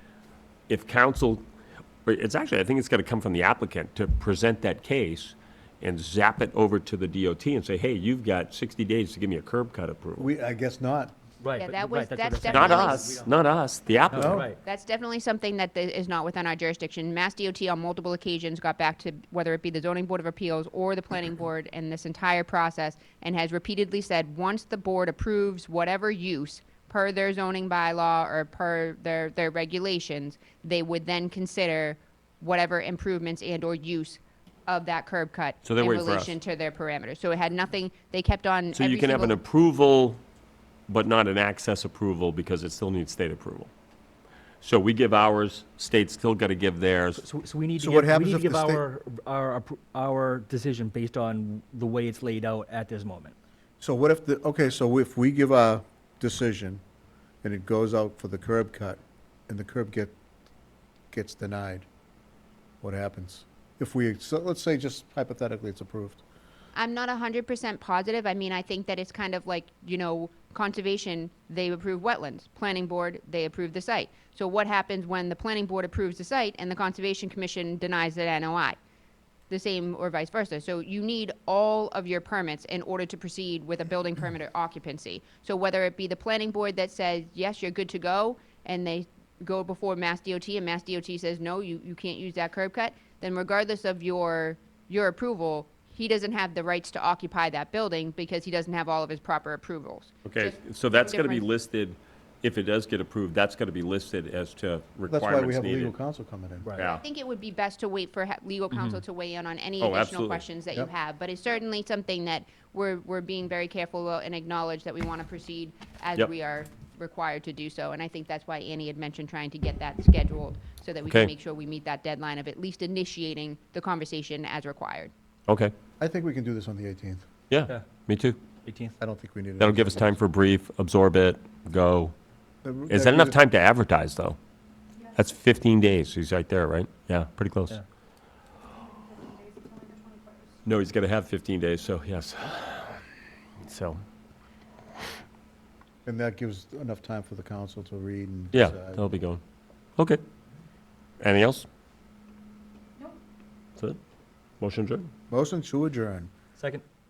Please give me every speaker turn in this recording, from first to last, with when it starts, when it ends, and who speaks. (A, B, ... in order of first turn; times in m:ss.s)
0:00.7-0:01.4 A
0:02.1-0:10.3 A
0:10.2-0:11.2 B
0:11.4-0:13.3 C
0:11.6-0:13.2 D
0:12.5-0:14.4 A
0:14.1-0:14.6 C
0:14.1-0:14.5 B
0:14.6-0:39.4 D
0:35.6-0:36.4 A
0:38.7-0:40.2 A
0:40.9-0:43.7 A
0:44.6-0:47.2 A
0:47.2-0:53.3 C
0:47.8-0:48.8 B
0:53.8-0:56.8 B
0:57.4-1:00.2 B
1:01.1-1:01.9 B
1:02.8-1:06.2 B
1:06.8-1:18.8 D
1:19.5-1:41.5 D
1:40.2-1:46.0 A
1:45.1-1:46.7 B
1:46.8-1:47.0 A
1:46.8-2:05.1 D
1:48.7-1:49.0 C
1:49.8-1:50.4 A
2:01.1-2:01.3 A
2:05.5-2:05.7 A
2:06.0-2:07.2 B
2:07.5-2:08.4 A
2:08.6-2:09.0 C
2:09.0-2:10.2 B
2:09.6-2:12.2 A
2:12.6-2:13.4 B
2:12.9-2:14.4 A
2:15.1-2:17.8 A
2:20.6-2:23.0 A
2:23.6-2:24.0 A
2:26.1-2:29.1 B
2:28.5-2:29.4 A
2:31.2-2:31.7 A
2:34.6-2:35.1 A
2:35.3-2:36.3 B
2:36.6-2:36.8 C